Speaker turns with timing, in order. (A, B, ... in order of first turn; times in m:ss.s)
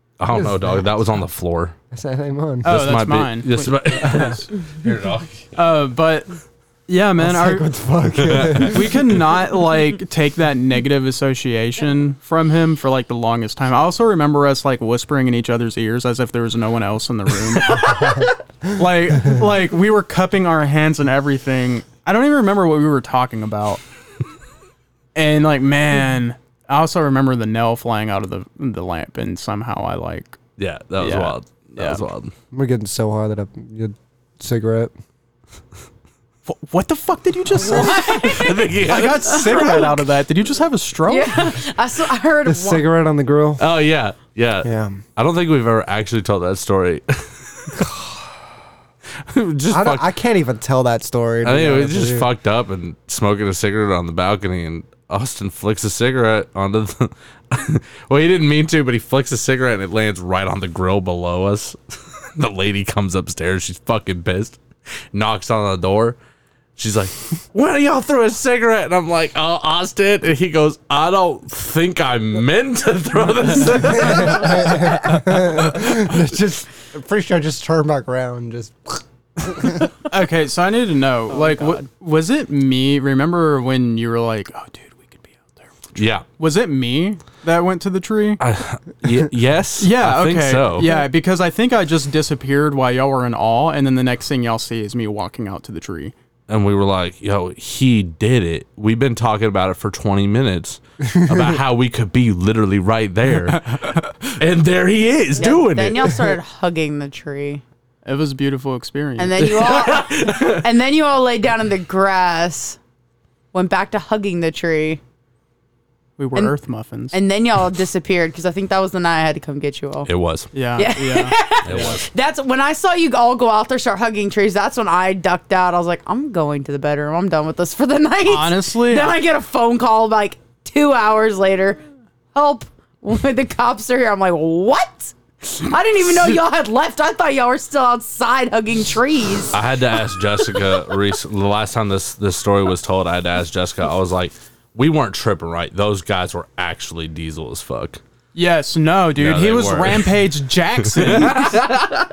0:00.2-0:01.8 A
0:00.3-0:00.8 B
0:01.9-0:02.8 B
0:02.6-0:04.6 C
0:02.6-0:05.5 A
0:05.5-0:07.7 C
0:07.2-0:08.9 B
0:08.2-0:08.8 A
0:08.3-0:23.8 C
0:25.2-0:30.4 C
0:30.6-0:32.3 A
0:31.0-0:32.0 C
0:32.5-0:34.9 B
0:36.5-0:41.6 C
0:37.6-0:38.1 B
0:37.7-0:38.6 D
0:38.2-0:40.0 A
0:41.1-0:42.8 D
0:42.5-0:43.6 B
0:43.6-0:47.8 A
0:44.6-0:45.0 B
0:47.8-0:48.2 B
0:49.2-0:50.0 A
0:49.7-0:52.3 B
0:51.4-1:04.6 A
1:05.1-1:06.2 A
1:06.8-1:16.1 A
1:14.0-1:19.9 B
1:20.1-1:28.4 C
1:26.0-1:26.2 A
1:28.4-1:30.9 A
1:29.8-1:36.1 C
1:36.5-1:46.4 A
1:41.0-1:41.6 B
1:45.4-1:47.6 D
1:48.0-1:49.6 C
1:49.2-1:52.8 D
1:49.4-1:50.6 A
1:53.5-1:55.0 D
1:56.2-1:57.2 C
1:57.1-2:00.1 D
2:00.0-2:00.5 A
2:00.5-2:02.0 C
2:00.8-2:11.8 D
2:01.6-2:02.1 A
2:08.2-2:09.2 C
2:12.3-2:19.6 D
2:19.5-2:28.0 A
2:28.4-2:31.8 C
2:29.2-2:30.1 A
2:31.0-2:31.8 A